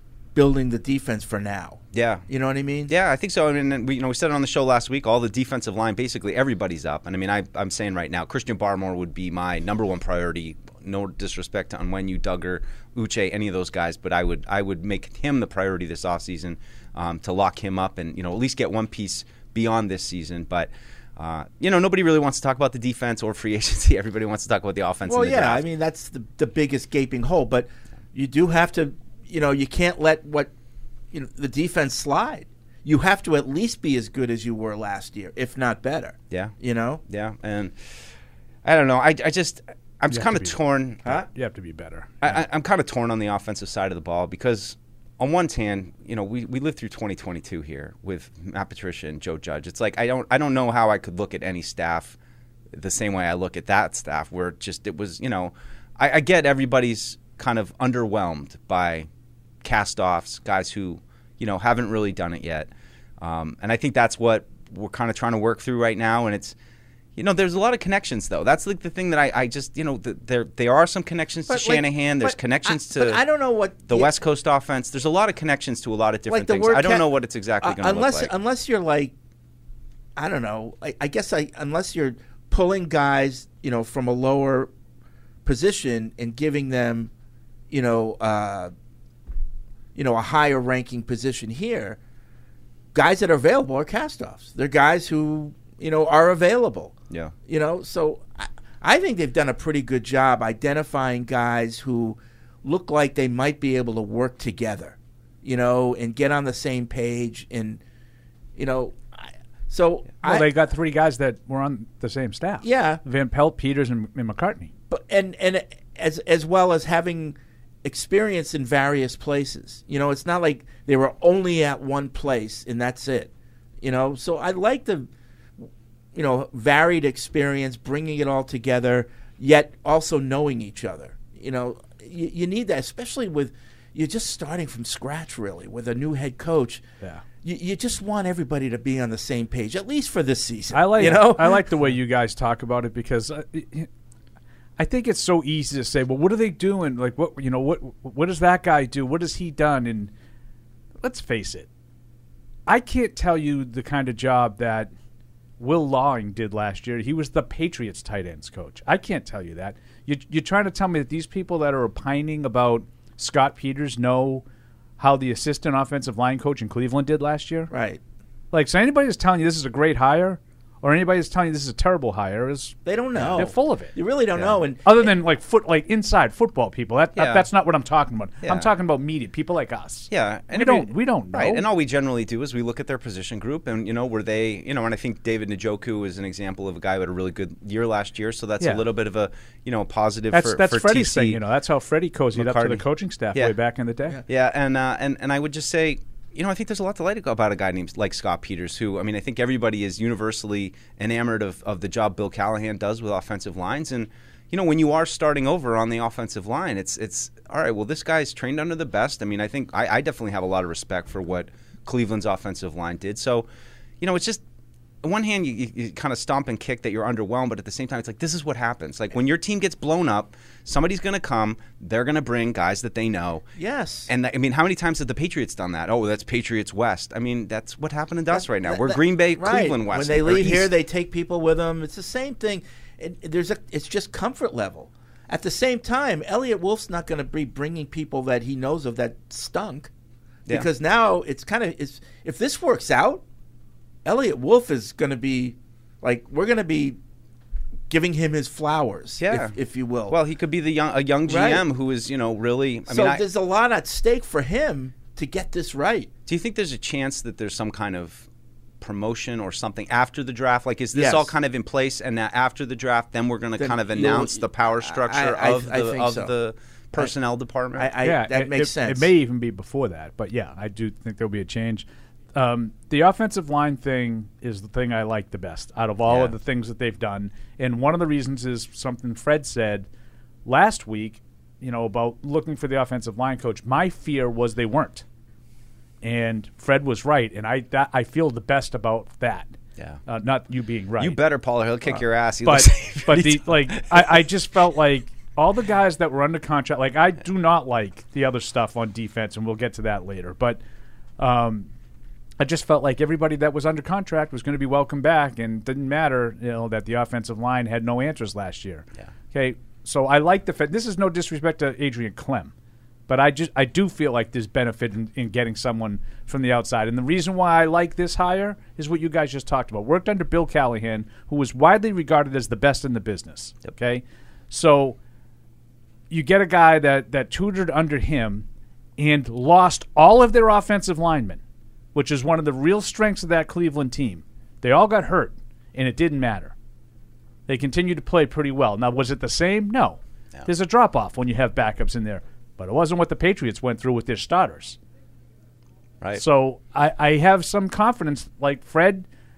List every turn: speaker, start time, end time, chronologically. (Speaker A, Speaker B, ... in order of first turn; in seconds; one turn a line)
Speaker A: 0.3-2.9
Speaker B: 1.9-2.2
Speaker B: 2.9-25.6
Speaker A: 25.1-30.5
Speaker A: 31.1-37.0
Speaker B: 37.1-38.0
Speaker B: 38.6-41.2
Speaker C: 40.1-40.6
Speaker C: 41.3-42.4
Speaker B: 42.2-52.2
Speaker B: 52.7-59.1
Speaker B: 59.6-66.5
Speaker B: 67.2-73.2
Speaker A: 71.5-74.1
Speaker B: 73.9-78.3
Speaker A: 76.3-79.1
Speaker A: 80.2-84.7
Speaker A: 85.4-87.1
Speaker A: 87.7-88.7
Speaker A: 89.9-92.0
Speaker A: 92.9-96.9
Speaker A: 97.5-107.8
Speaker A: 108.5-110.5
Speaker C: 110.2-114.7
Speaker A: 112.6-113.0
Speaker A: 114.9-123.3
Speaker A: 123.8-125.1
Speaker A: 126.1-136.8
Speaker A: 137.4-141.7
Speaker C: 140.7-143.9
Speaker C: 144.8-150.1
Speaker C: 151.0-151.7
Speaker C: 152.7-154.9
Speaker C: 155.6-164.4
Speaker C: 165.0-167.7
Speaker A: 167.7-168.0
Speaker C: 168.5-172.8
Speaker A: 172.8-175.1
Speaker B: 173.1-173.5
Speaker C: 173.3-173.9
Speaker B: 174.3-174.6
Speaker C: 174.8-181.7
Speaker B: 177.1-177.5
Speaker B: 178.4-178.7
Speaker B: 180.1-191.4
Speaker C: 188.6-188.8
Speaker C: 190.3-194.2
Speaker B: 192.3-193.6
Speaker B: 194.3-213.5
Speaker B: 214.0-214.4
Speaker B: 215.0-223.4
Speaker A: 223.6-224.1
Speaker B: 224.1-230.7
Speaker A: 228.3-239.9
Speaker A: 240.5-243.2
Speaker A: 244.0-247.0
Speaker A: 247.9-250.2
Speaker B: 249.2-249.5
Speaker B: 250.1-253.2
Speaker A: 251.3-251.6
Speaker A: 252.9-256.1
Speaker B: 256.3-258.3
Speaker B: 258.8-267.9
Speaker A: 260.9-261.3
Speaker A: 263.6-266.3
Speaker A: 267.8-269.1
Speaker C: 268.0-279.9
Speaker B: 276.1-276.3
Speaker C: 280.4-285.0
Speaker C: 286.0-289.6
Speaker C: 290.1-291.2
Speaker B: 291.0-294.2
Speaker C: 292.4-300.6
Speaker C: 301.2-301.7
Speaker C: 302.4-312.5
Speaker C: 313.1-325.0
Speaker C: 326.1-328.4
Speaker C: 329.0-331.4
Speaker C: 331.9-336.5
Speaker C: 337.5-344.8
Speaker C: 346.1-349.1